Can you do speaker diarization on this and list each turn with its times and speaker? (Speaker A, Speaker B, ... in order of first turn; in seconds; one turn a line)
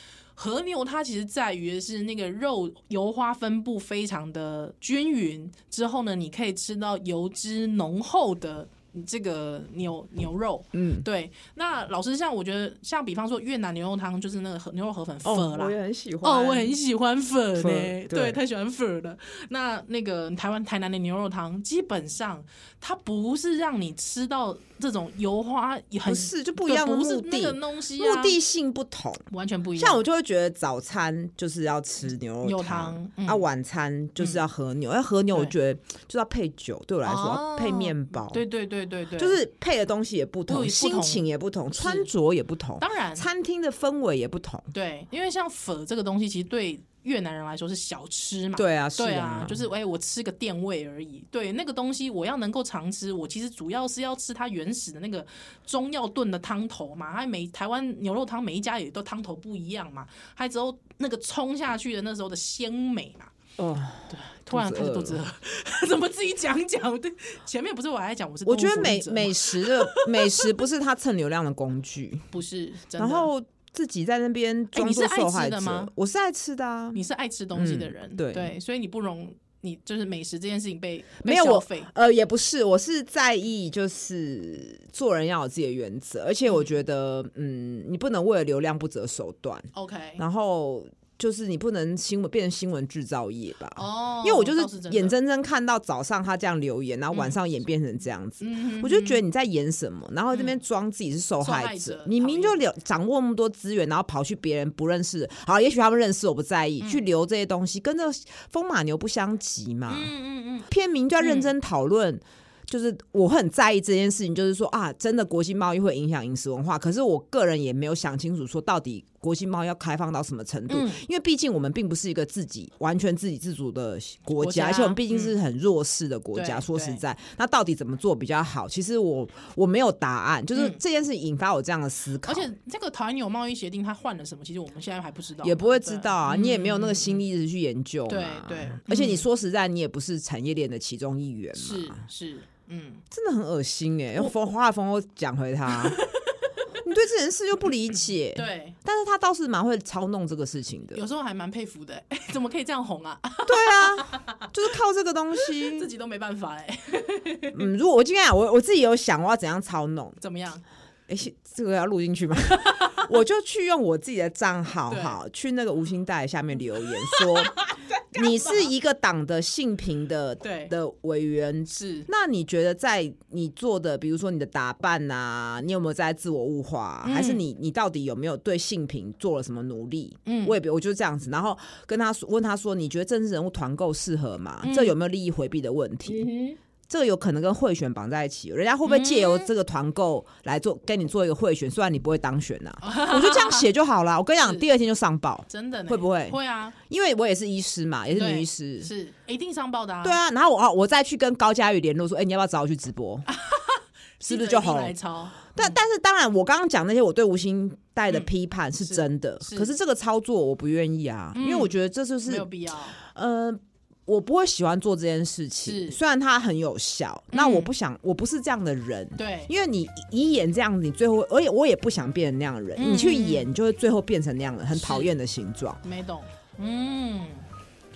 Speaker A: 0.3-28.4
Speaker B: 10.7-11.1
Speaker B: 15.2-16.7
Speaker B: 17.6-18.4
Speaker B: 26.0-29.2
Speaker A: 29.3-30.0
Speaker B: 29.8-38.4
Speaker A: 32.4-33.5
Speaker A: 37.0-39.4
Speaker B: 39.2-44.7
Speaker A: 40.5-42.1
Speaker A: 42.8-43.2
Speaker A: 44.7-63.3
Speaker B: 48.5-49.6
Speaker B: 63.6-65.2
Speaker A: 64.1-70.5
Speaker B: 68.5-72.3
Speaker A: 72.3-73.3
Speaker B: 73.0-77.0
Speaker A: 74.7-75.9
Speaker A: 76.9-81.9
Speaker B: 77.5-78.5
Speaker B: 81.2-110.1
Speaker A: 89.7-90.2
Speaker A: 93.8-95.1
Speaker A: 97.1-97.4
Speaker A: 98.4-99.2
Speaker A: 100.3-100.6
Speaker A: 101.4-102.6
Speaker A: 109.9-111.5
Speaker B: 110.7-132.5
Speaker A: 120.7-121.0
Speaker A: 124.4-125.3
Speaker A: 126.3-127.0
Speaker A: 130.5-130.8
Speaker A: 132.2-137.2
Speaker B: 135.4-142.0
Speaker A: 138.1-139.3
Speaker A: 141.5-143.0
Speaker B: 143.1-146.0
Speaker A: 145.7-146.4
Speaker B: 146.8-151.0
Speaker A: 148.3-148.8
Speaker A: 150.9-154.5
Speaker B: 153.4-155.9
Speaker A: 155.4-157.7
Speaker B: 157.5-160.2
Speaker A: 160.2-160.6
Speaker B: 161.1-186.3
Speaker A: 162.5-163.1
Speaker A: 164.9-165.2
Speaker A: 167.1-168.7
Speaker A: 170.4-170.7
Speaker A: 171.7-172.1
Speaker A: 177.0-177.4
Speaker A: 180.2-180.5
Speaker A: 184.6-184.9
Speaker A: 186.2-186.5
Speaker B: 186.9-196.4
Speaker A: 188.8-189.5
Speaker A: 192.8-193.7
Speaker A: 194.4-194.7
Speaker A: 195.5-196.8
Speaker B: 196.9-198.9
Speaker A: 198.1-200.2
Speaker B: 200.0-203.3
Speaker A: 203.3-205.8
Speaker B: 204.2-204.9
Speaker B: 205.5-212.4
Speaker A: 208.1-209.7
Speaker A: 211.3-212.9
Speaker B: 213.0-225.8
Speaker A: 215.6-216.0
Speaker A: 217.3-217.7
Speaker A: 219.2-219.5
Speaker A: 222.8-223.5
Speaker A: 224.7-225.1
Speaker A: 225.8-227.5